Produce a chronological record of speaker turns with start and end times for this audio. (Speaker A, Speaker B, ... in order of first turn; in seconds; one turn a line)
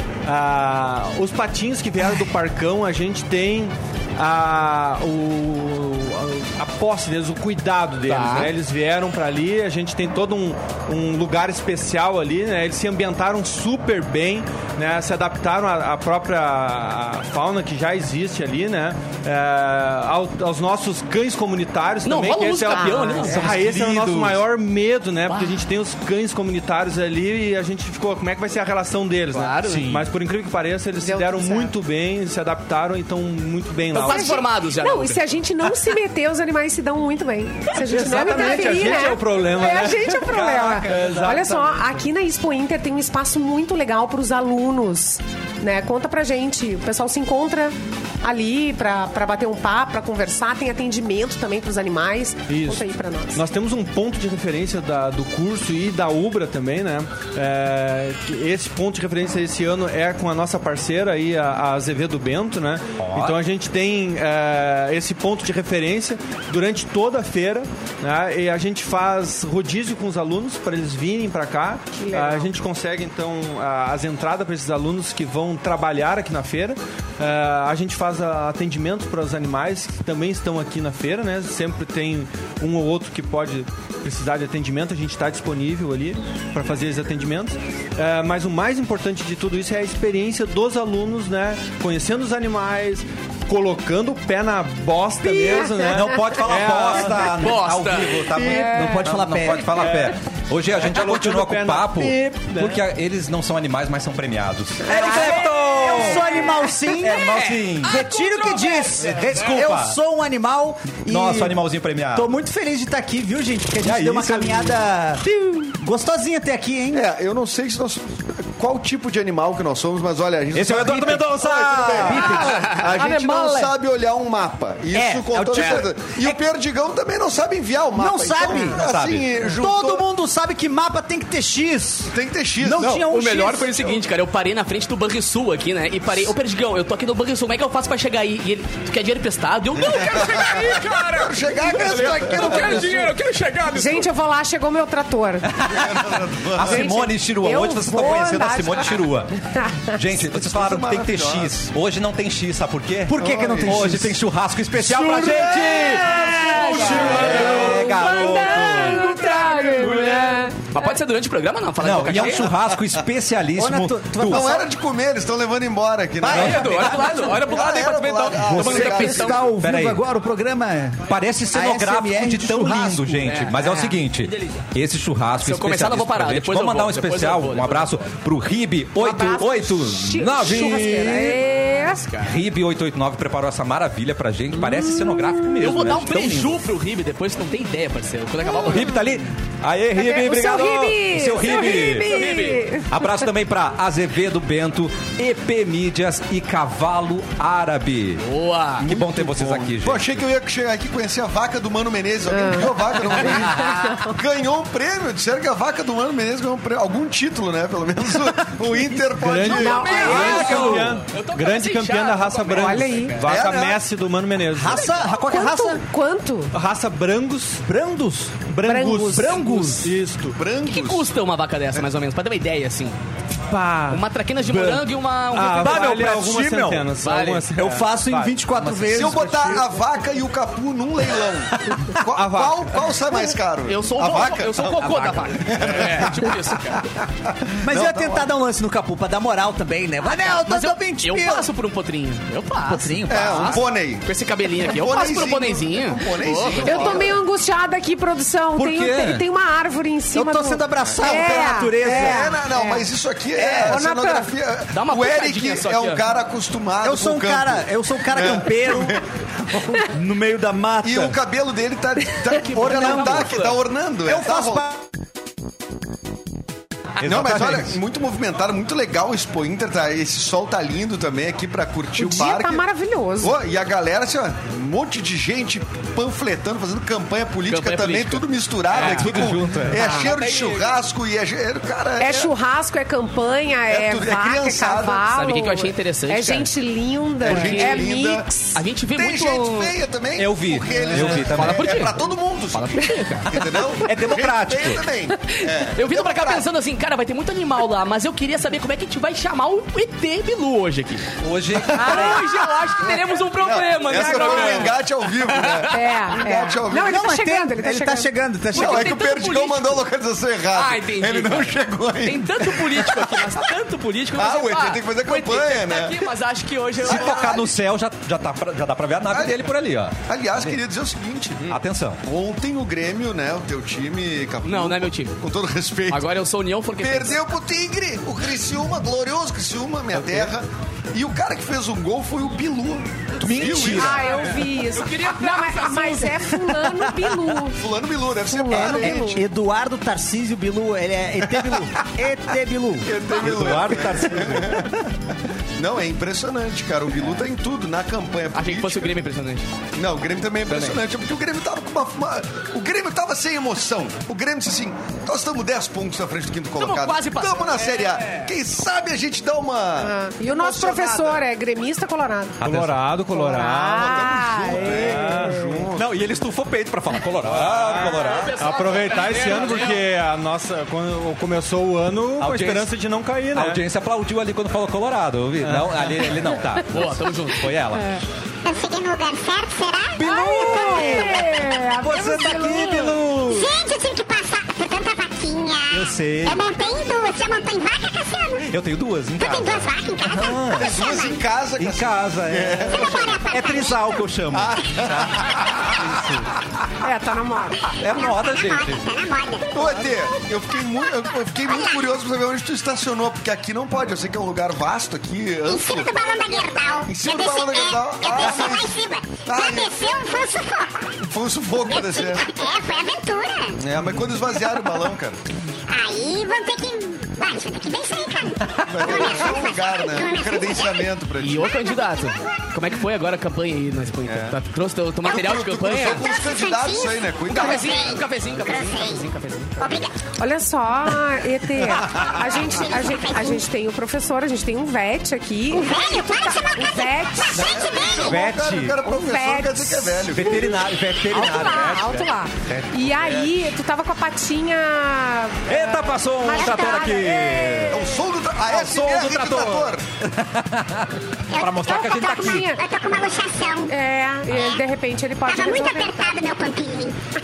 Speaker A: 0.2-34.2
Speaker B: 8.1-8.5
Speaker B: 22.0-23.5
Speaker C: 22.7-23.5
Speaker D: 23.4-24.4
Speaker B: 25.3-25.6
Speaker B: 29.3-30.0
Speaker C: 31.0-31.7
Speaker B: 33.9-35.2
Speaker C: 34.0-53.4
Speaker A: 37.8-41.8
Speaker D: 40.2-41.6
Speaker A: 52.5-97.5
Speaker D: 63.0-63.4
Speaker C: 72.0-72.5
Speaker C: 95.2-96.2
Speaker D: 95.8-106.4
Speaker B: 97.2-98.3
Speaker E: 98.3-99.8
Speaker C: 98.4-99.0
Speaker A: 99.7-100.1
Speaker A: 100.7-102.8
Speaker E: 104.8-111.6
Speaker D: 107.0-108.0
Speaker B: 107.3-109.1
Speaker D: 109.0-110.0
Speaker D: 111.0-112.3
Speaker E: 112.1-117.0
Speaker D: 113.8-114.8
Speaker F: 116.9-130.0
Speaker D: 120.5-122.5
Speaker E: 121.8-123.7
Speaker B: 122.1-123.7
Speaker E: 124.9-126.3
Speaker B: 125.5-125.9
Speaker E: 127.9-128.8
Speaker D: 128.7-129.3
Speaker E: 129.4-133.9
Speaker F: 132.1-133.1
Speaker B: 132.9-144.1
Speaker F: 139.9-143.1
Speaker C: 143.7-145.7
Speaker D: 145.5-149.3
Speaker F: 145.6-146.9
Speaker C: 146.6-149.9
Speaker D: 149.9-159.1
Speaker F: 150.2-151.6
Speaker E: 153.1-154.2
Speaker F: 153.1-154.1
Speaker E: 154.8-157.5
Speaker F: 156.0-157.6
Speaker B: 156.5-162.5
Speaker C: 156.6-160.5
Speaker D: 161.8-164.5
Speaker F: 162.1-162.6
Speaker E: 163.6-164.7
Speaker F: 164.2-169.5
Speaker B: 166.2-169.5
Speaker D: 166.3-167.0
Speaker E: 168.5-173.4
Speaker D: 169.6-170.0
Speaker D: 171.1-181.4
Speaker B: 173.2-174.7
Speaker B: 175.4-178.0
Speaker C: 179.0-182.1
Speaker B: 181.7-182.4
Speaker D: 182.2-186.7
Speaker C: 184.6-185.8
Speaker B: 185.6-189.0
Speaker C: 188.4-189.0
Speaker D: 188.5-198.2
Speaker C: 189.9-192.9
Speaker B: 192.0-192.7
Speaker B: 198.2-198.8
Speaker D: 198.8-200.2
Speaker F: 198.8-210.3
Speaker C: 202.3-204.2
Speaker B: 203.1-203.8
Speaker A: 209.1-214.8
Speaker B: 209.5-213.4
Speaker C: 209.6-210.7
Speaker E: 210.4-210.8
Speaker C: 212.5-213.1
Speaker F: 213.2-213.8
Speaker E: 214.5-215.8
Speaker B: 214.7-215.1
Speaker C: 215.1-216.5
Speaker A: 216.5-217.7
Speaker E: 217.7-218.5
Speaker A: 218.3-220.4
Speaker C: 218.6-219.4
Speaker E: 219.1-219.9
Speaker F: 220.3-221.1
Speaker B: 220.6-222.9
Speaker A: 223.4-224.8
Speaker B: 223.9-226.0
Speaker A: 225.3-228.4
Speaker E: 225.6-226.9
Speaker B: 227.0-227.4
Speaker E: 227.5-229.7
Speaker D: 228.6-229.1
Speaker F: 228.9-236.4
Speaker A: 232.1-232.7
Speaker B: 233.7-236.9
Speaker E: 237.6-241.5
Speaker F: 237.6-238.3
Speaker B: 240.1-247.1
Speaker E: 242.6-243.6
Speaker F: 243.1-244.1
Speaker F: 244.6-247.2
Speaker C: 246.6-254.3
Speaker E: 248.6-249.2
Speaker D: 248.6-249.1
Speaker E: 250.1-252.3
Speaker F: 250.8-259.0
Speaker B: 254.7-256.1
Speaker E: 256.8-261.2
Speaker F: 260.8-264.7
Speaker E: 262.5-263.4
Speaker B: 262.5-263.6
Speaker E: 264.0-264.9
Speaker F: 267.0-272.6
Speaker D: 267.0-267.7
Speaker C: 271.9-273.4
Speaker F: 273.2-282.3
Speaker B: 277.5-280.8
Speaker D: 278.7-279.8
Speaker C: 279.7-280.1
Speaker C: 282.0-288.6
Speaker F: 283.7-285.1
Speaker B: 285.1-286.5
Speaker F: 287.2-288.3
Speaker B: 287.2-287.9
Speaker B: 288.5-289.8
Speaker F: 288.9-296.4
Speaker D: 290.2-291.8
Speaker B: 290.8-293.5
Speaker D: 293.8-294.8
Speaker B: 295.3-301.1
Speaker D: 301.2-302.3
Speaker B: 301.6-305.9
Speaker F: 301.9-302.2
Speaker F: 302.8-307.0
Speaker C: 305.7-308.1
Speaker E: 306.7-309.0
Speaker F: 308.5-313.3
Speaker B: 308.5-309.8
Speaker B: 310.5-317.4
Speaker F: 314.1-316.0
Speaker F: 316.8-317.5
Speaker D: 316.8-320.5
Speaker F: 319.1-319.5
Speaker F: 320.1-326.1
Speaker D: 321.5-322.0
Speaker B: 324.4-325.2
Speaker B: 325.9-327.2
Speaker F: 326.8-334.1
Speaker D: 333.2-334.1
Speaker C: 333.4-337.6
Speaker B: 334.3-336.3
Speaker F: 337.5-339.2
Speaker C: 338.2-339.2
Speaker E: 338.5-342.9
Speaker F: 341.3-341.6
Speaker F: 342.8-344.7
Speaker D: 343.1-344.8
Speaker F: 345.6-348.9
Speaker B: 348.3-349.4
Speaker F: 349.7-361.2
Speaker B: 350.5-350.8
Speaker B: 356.6-358.3
Speaker C: 359.8-362.4
Speaker D: 362.4-362.8
Speaker A: 362.4-365.7
Speaker C: 363.1-365.6
Speaker F: 363.7-365.9
Speaker D: 365.7-368.4
Speaker A: 367.2-373.6
Speaker B: 367.7-369.9
Speaker D: 372.2-372.7
Speaker D: 373.3-378.0
Speaker A: 375.4-376.3
Speaker B: 376.7-377.5
Speaker G: 378.4-381.1
Speaker D: 379.9-383.5
Speaker C: 380.0-383.0
Speaker G: 383.2-388.5
Speaker D: 385.7-386.5
Speaker D: 388.4-390.7
Speaker G: 389.2-391.1
Speaker F: 390.5-393.2
Speaker D: 391.6-396.2
Speaker G: 392.7-394.0
Speaker F: 394.3-395.5
Speaker C: 396.8-397.6
Speaker D: 397.8-398.8
Speaker G: 397.9-400.3
Speaker F: 399.5-405.9
Speaker G: 401.4-401.8
Speaker G: 405.5-410.9
Speaker F: 406.8-410.1
Speaker F: 411.0-412.3
Speaker G: 411.6-413.6
Speaker F: 413.6-415.2
Speaker G: 415.7-420.9
Speaker F: 418.6-421.7
Speaker B: 421.2-426.0
Speaker G: 421.5-422.5
Speaker F: 424.1-424.4
Speaker F: 425.0-427.9
Speaker G: 425.8-429.1
Speaker B: 427.3-429.7
Speaker G: 429.6-430.0
Speaker C: 430.2-437.6
Speaker G: 431.8-433.4
Speaker G: 435.5-438.1
Speaker F: 437.3-440.5
Speaker D: 438.0-438.8
Speaker C: 438.8-448.0
Speaker D: 440.1-443.3
Speaker D: 445.5-447.8
Speaker F: 447.7-449.9
Speaker D: 448.4-452.5
Speaker G: 451.3-453.8
Speaker C: 451.6-452.6
Speaker C: 453.7-456.1
Speaker G: 454.3-454.6
Speaker G: 455.3-457.0